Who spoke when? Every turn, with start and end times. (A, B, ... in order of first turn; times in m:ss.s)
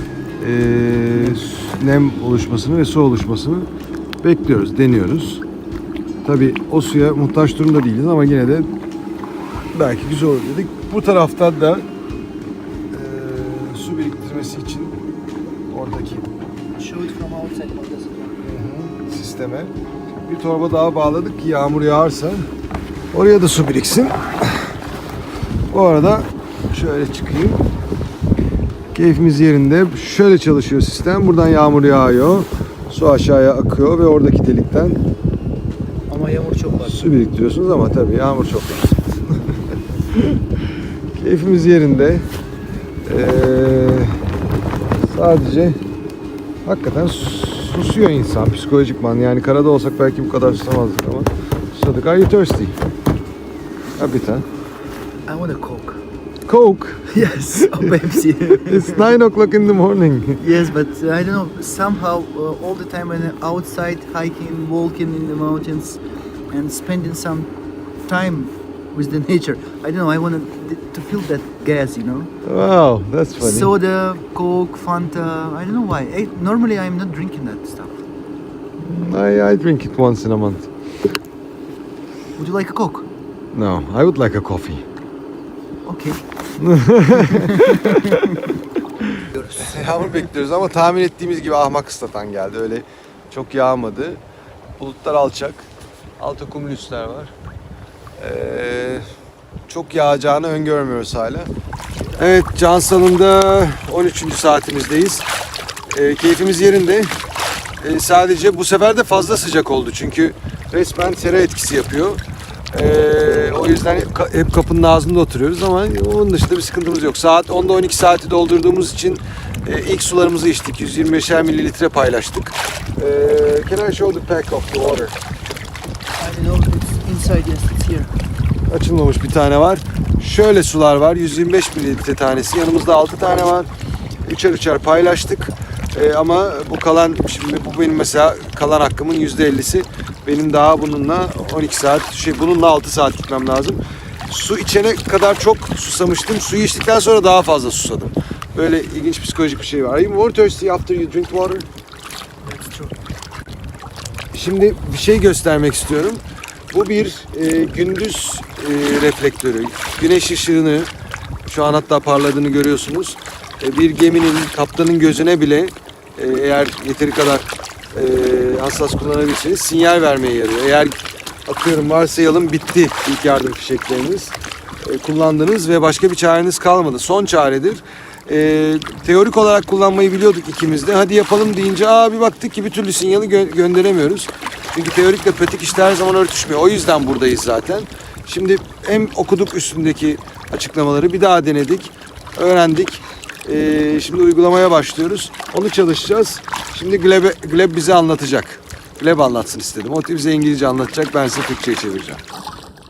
0:00.4-0:03.7 A
0:04.2-0:05.4 A
0:06.2-0:08.7 A
0:09.7-0:11.9 A
0:12.9-0:15.0 A
0:15.7-0:16.3 A
0:16.8-0:18.4 B
0:18.4-0:19.7 A
0:20.3-0:22.5 A
0:23.1-0:24.7 A
0:25.7-0:27.6 A
0:28.9-0:35.0 A
0:36.1-0:37.0 B
0:36.8-0:39.4 A
0:41.1-0:42.3 A
0:43.1-0:44.2 A
0:45.1-0:45.8 A
0:46.6-0:52.8 A
0:54.0-0:54.4 A
0:55.3-0:56.0 B
0:56.5-0:57.2 A
0:57.1-0:59.1 B
0:58.6-1:00.4 A
1:00.4-1:07.5 B
1:08.1-1:12.3 B
1:12.4-1:13.7 A
1:13.4-1:18.0 B
1:18.8-1:20.7 A
1:22.4-1:23.1 B
1:23.5-1:24.8 A
1:25.8-1:26.2 B
1:26.6-1:28.4 A
1:27.2-1:28.2 B
1:29.1-1:34.2 A
1:29.3-1:30.1 B
1:34.8-1:35.7 A
1:36.2-1:37.3 A
1:38.2-1:39.0 A
1:39.7-1:41.5 A
1:42.2-1:45.3 A
1:45.9-1:47.1 A
1:47.8-1:52.2 A
1:52.7-2:05.2 A
2:06.2-2:08.1 B
2:08.7-2:13.7 A
2:14.3-2:31.7 A
2:32.4-2:32.9 B
2:34.3-2:40.9 A
2:41.5-3:22.2 A